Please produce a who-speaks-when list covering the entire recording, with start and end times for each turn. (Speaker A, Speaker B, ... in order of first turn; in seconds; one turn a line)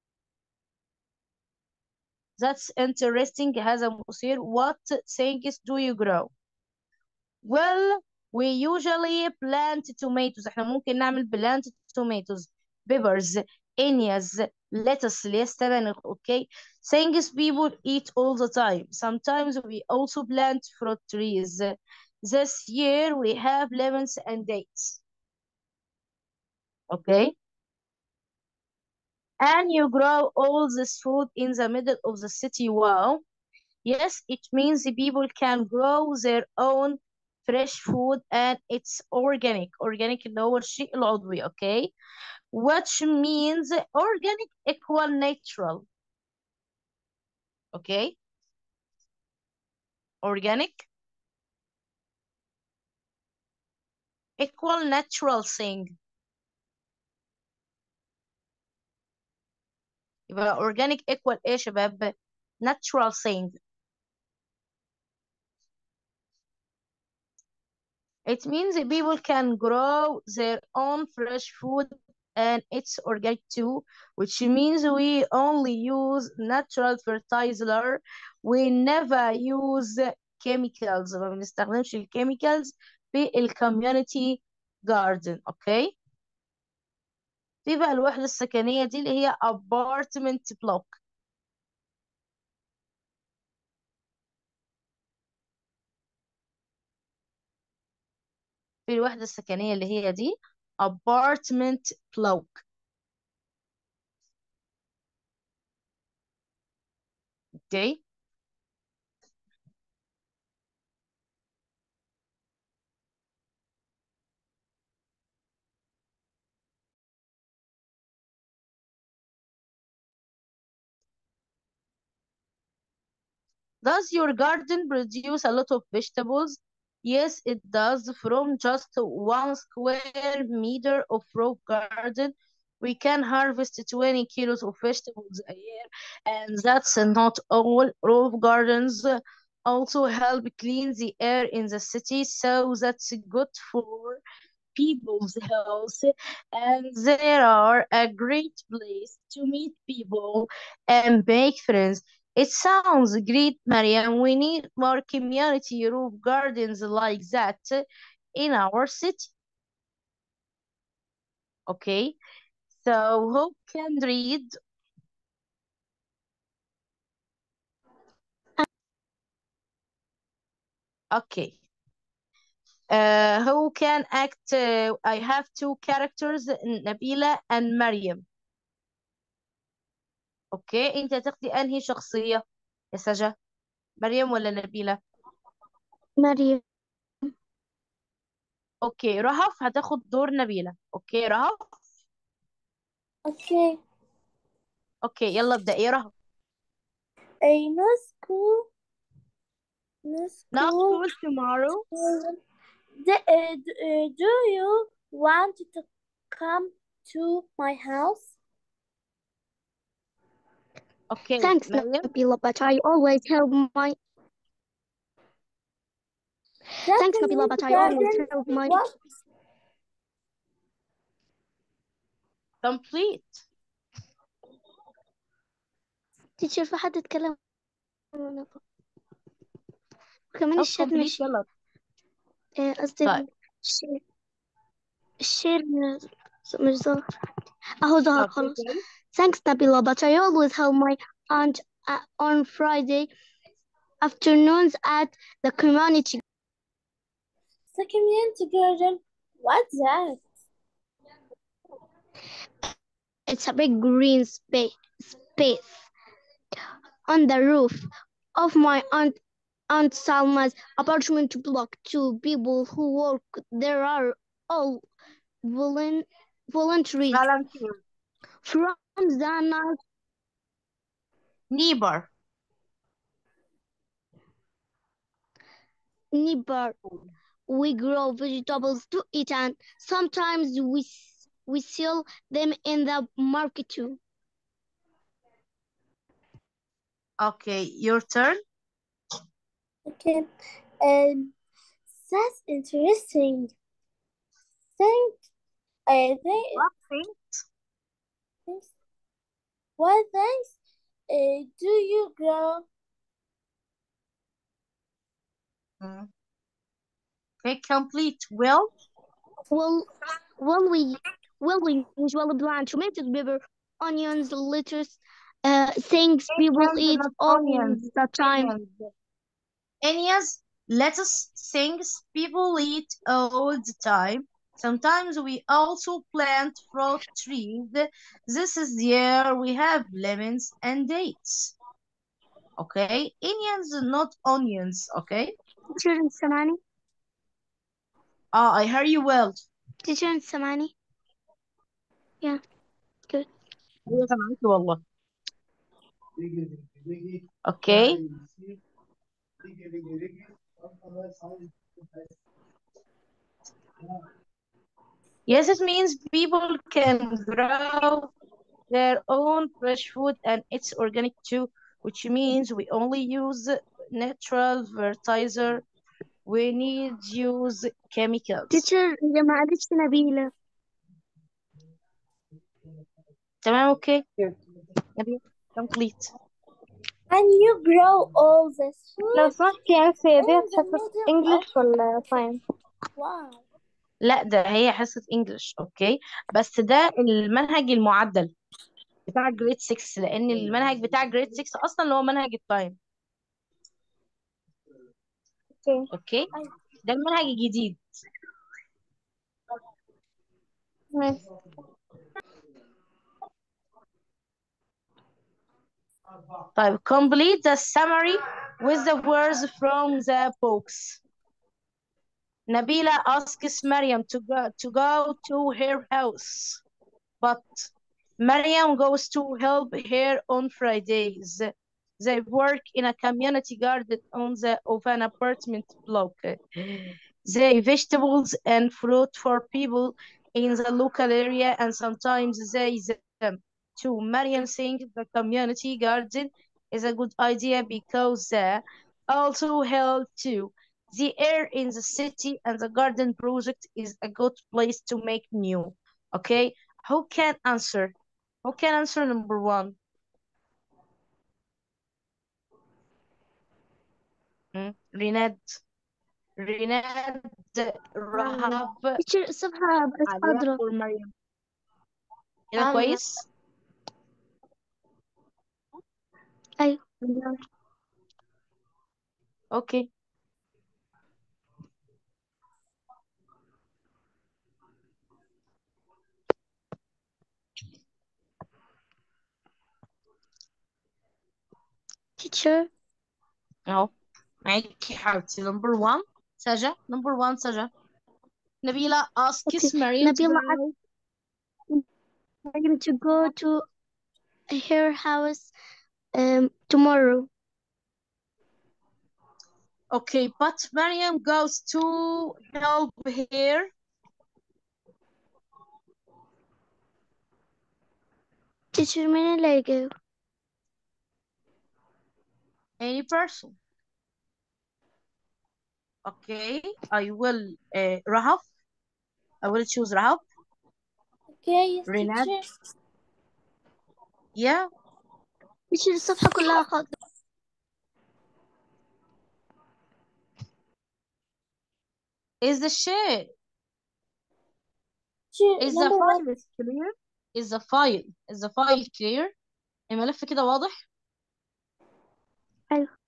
Speaker A: 2.4-6.3
Speaker A: 7.4-25.0
Speaker A: 26.9-27.3
Speaker A: 29.4-33.2
Speaker A: 33.8-41.9
Speaker A: 42.5-45.9
Speaker A: 47.7-48.1
Speaker A: 50.2-50.9
Speaker A: 54.4-55.9
Speaker A: 60.3-63.5
Speaker A: 68.2-85.9
Speaker A: 87.6-91.0
Speaker A: 98.9-102.6
Speaker A: 107.7-108.0
Speaker A: 123.8-144.2
Speaker A: 144.7-157.8
Speaker A: 158.3-159.3
Speaker A: 161.7-162.1
Speaker A: 162.7-164.5
Speaker A: 171.1-171.6
Speaker A: 172.9-178.2
Speaker A: 180.5-183.3
Speaker A: 184.0-185.0
Speaker B: 186.2-186.6
Speaker A: 188.8-191.6
Speaker C: 193.2-193.8
Speaker A: 195.0-196.1
Speaker C: 197.4-198.7
Speaker C: 200.0-201.0
Speaker A: 200.5-201.8
Speaker C: 201.9-202.3
Speaker C: 203.0-208.3
Speaker A: 211.1-212.1
Speaker B: 211.4-214.0
Speaker C: 216.8-218.9
Speaker B: 216.9-218.8
Speaker A: 222.6-223.4
Speaker B: 226.4-227.3
Speaker B: 228.1-228.6
Speaker B: 230.3-231.3
Speaker A: 230.6-231.4
Speaker B: 232.6-234.0
Speaker B: 235.2-237.0
Speaker B: 237.8-238.6
Speaker A: 238.2-238.8
Speaker B: 239.1-243.1
Speaker B: 244.0-246.2
Speaker C: 247.7-250.2
Speaker B: 253.3-255.9
Speaker B: 257.1-259.1
Speaker B: 259.7-264.8
Speaker B: 265.4-267.2
Speaker A: 267.1-267.8
Speaker B: 268.4-269.8
Speaker A: 271.5-272.1
Speaker B: 276.1-276.8
Speaker B: 277.5-284.0
Speaker A: 287.2-288.4
Speaker C: 289.9-290.3
Speaker C: 290.8-291.3
Speaker C: 291.9-293.5
Speaker C: 294.8-295.2
Speaker C: 295.9-296.6
Speaker A: 296.5-297.4
Speaker C: 299.8-300.6
Speaker C: 301.1-302.6
Speaker A: 305.8-306.1
Speaker A: 307.4-308.7
Speaker B: 309.5-318.5
Speaker A: 316.3-318.9
Speaker A: 319.8-331.5
Speaker A: 332.6-335.3
Speaker B: 335.7-336.6
Speaker A: 338.3-339.4
Speaker B: 339.8-340.7
Speaker A: 343.9-344.8
Speaker A: 347.4-348.0
Speaker A: 355.3-358.1
Speaker A: 358.7-365.6
Speaker A: 366.2-368.6
Speaker B: 368.5-370.3
Speaker A: 373.4-374.0
Speaker A: 375.0-376.1
Speaker C: 377.1-379.4
Speaker D: 379.1-382.4
Speaker C: 380.2-381.5
Speaker C: 382.9-383.4
Speaker A: 384.0-388.3
Speaker A: 389.1-392.8
Speaker A: 395.9-396.3
Speaker A: 396.8-397.8
Speaker D: 400.9-401.2
Speaker A: 406.5-411.0
Speaker A: 412.5-416.6
Speaker A: 417.2-426.4
Speaker A: 427.2-449.8
Speaker A: 454.5-455.6
Speaker A: 456.4-459.0
Speaker B: 458.1-460.6
Speaker A: 460.1-461.1
Speaker A: 462.5-463.1
Speaker B: 462.6-463.0
Speaker A: 467.0-467.4
Speaker A: 469.5-469.9
Speaker B: 482.2-482.7
Speaker A: 483.7-483.9
Speaker A: 484.4-487.7
Speaker A: 488.6-490.7
Speaker B: 489.5-490.6
Speaker B: 492.5-493.6
Speaker B: 494.5-495.5
Speaker B: 496.1-497.3
Speaker A: 499.9-503.7
Speaker B: 508.7-509.9
Speaker A: 512.8-513.6
Speaker A: 516.0-518.4
Speaker A: 519.4-520.2
Speaker C: 521.4-522.4
Speaker A: 521.9-522.3
Speaker A: 524.4-524.6
Speaker B: 525.7-526.9
Speaker A: 532.4-533.3
Speaker C: 535.3-536.3
Speaker A: 535.6-539.3
Speaker A: 539.9-540.7